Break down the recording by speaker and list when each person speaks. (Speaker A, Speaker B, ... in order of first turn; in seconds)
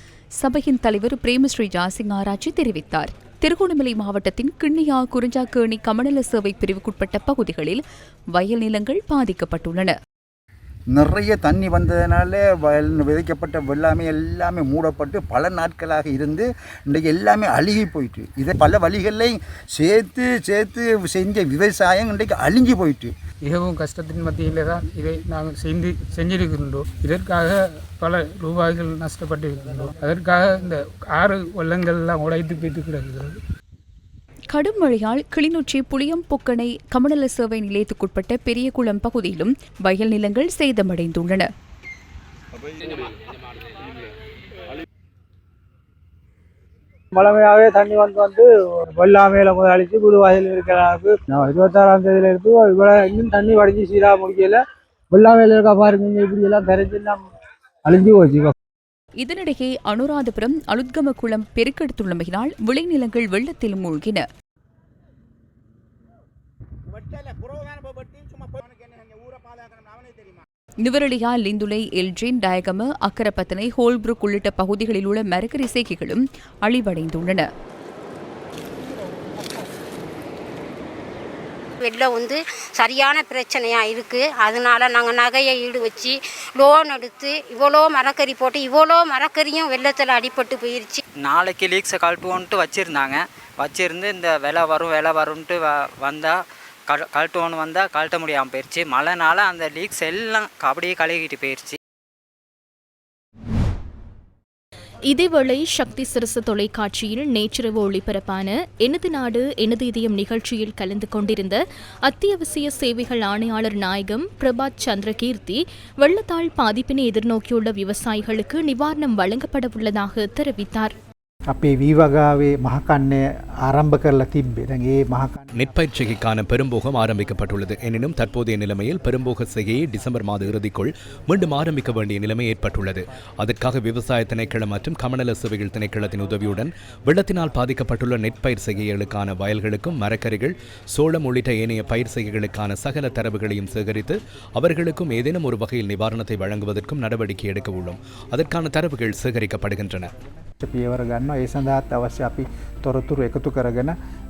Speaker A: 0.4-7.8, 8.3-9.9, 34.5-41.5, 59.2-64.2, 70.8-77.5
Speaker B: 10.9-23.1
Speaker C: 23.4-33.4
Speaker D: 47.1-54.6, 55.1-57.2, 57.9-58.5
Speaker E: 81.8-91.0
Speaker F: 91.2-101.8
Speaker G: 105.1-120.9
Speaker H: 121.5-125.6, 150.6-153.9
Speaker I: 125.5-150.1